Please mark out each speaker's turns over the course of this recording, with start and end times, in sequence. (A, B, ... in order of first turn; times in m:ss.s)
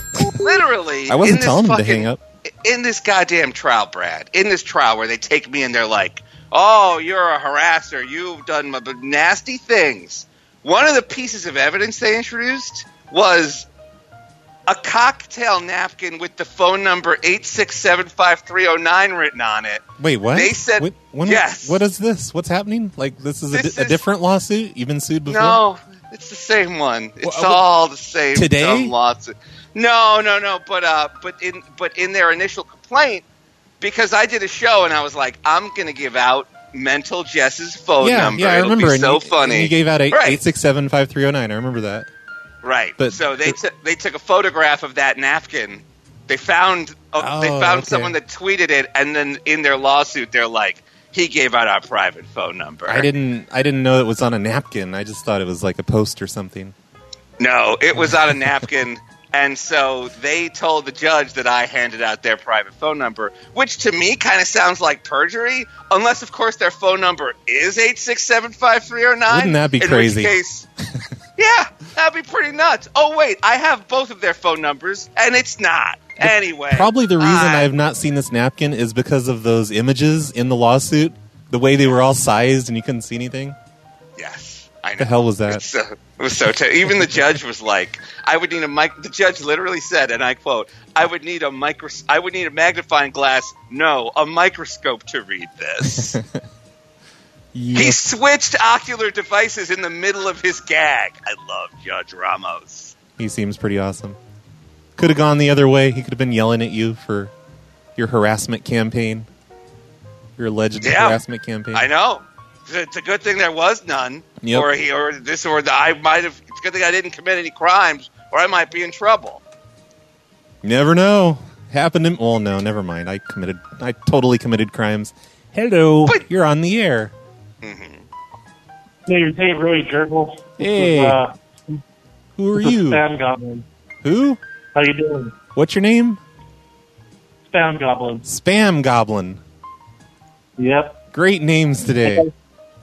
0:00.4-0:13.7 A
0:01.1-0:02.2 B
0:14.7-0:21.8 A
0:20.0-0:25.6 B
0:23.5-0:24.0 A
0:25.3-0:33.2 A
0:27.2-0:27.6 B
0:28.4-0:28.9 B
0:33.8-0:40.4 A
0:38.0-0:42.1 B
0:42.6-0:53.1 A
0:43.0-0:43.6 B
0:47.2-0:48.1 B
0:52.9-0:56.7 B
0:57.4-1:10.7 A
1:09.3-1:10.3 B
1:11.4-1:17.7 A
1:16.2-1:23.6 B
1:24.2-1:36.2 A
1:25.0-1:25.6 B
1:35.9-1:36.3 B
1:37.5-1:38.0 B
1:37.8-1:43.0 A
1:43.2-1:44.2 B
1:45.0-1:47.3 B
1:48.0-1:49.3 B
1:50.4-1:51.9 B
1:50.8-1:51.2 A
1:51.7-1:59.4 A
1:54.4-1:54.7 B
2:00.6-2:07.1 B
2:07.6-2:08.0 A
2:09.1-2:11.8 C
2:10.6-2:11.2 B
2:12.4-2:13.0 B
2:12.6-2:13.6 C
2:14.0-2:14.4 B
2:14.8-2:15.4 C
2:15.6-2:16.2 B
2:17.5-2:18.2 C
2:18.2-2:19.4 B
2:20.6-2:21.0 C
2:21.1-2:22.3 B
2:22.0-2:22.3 C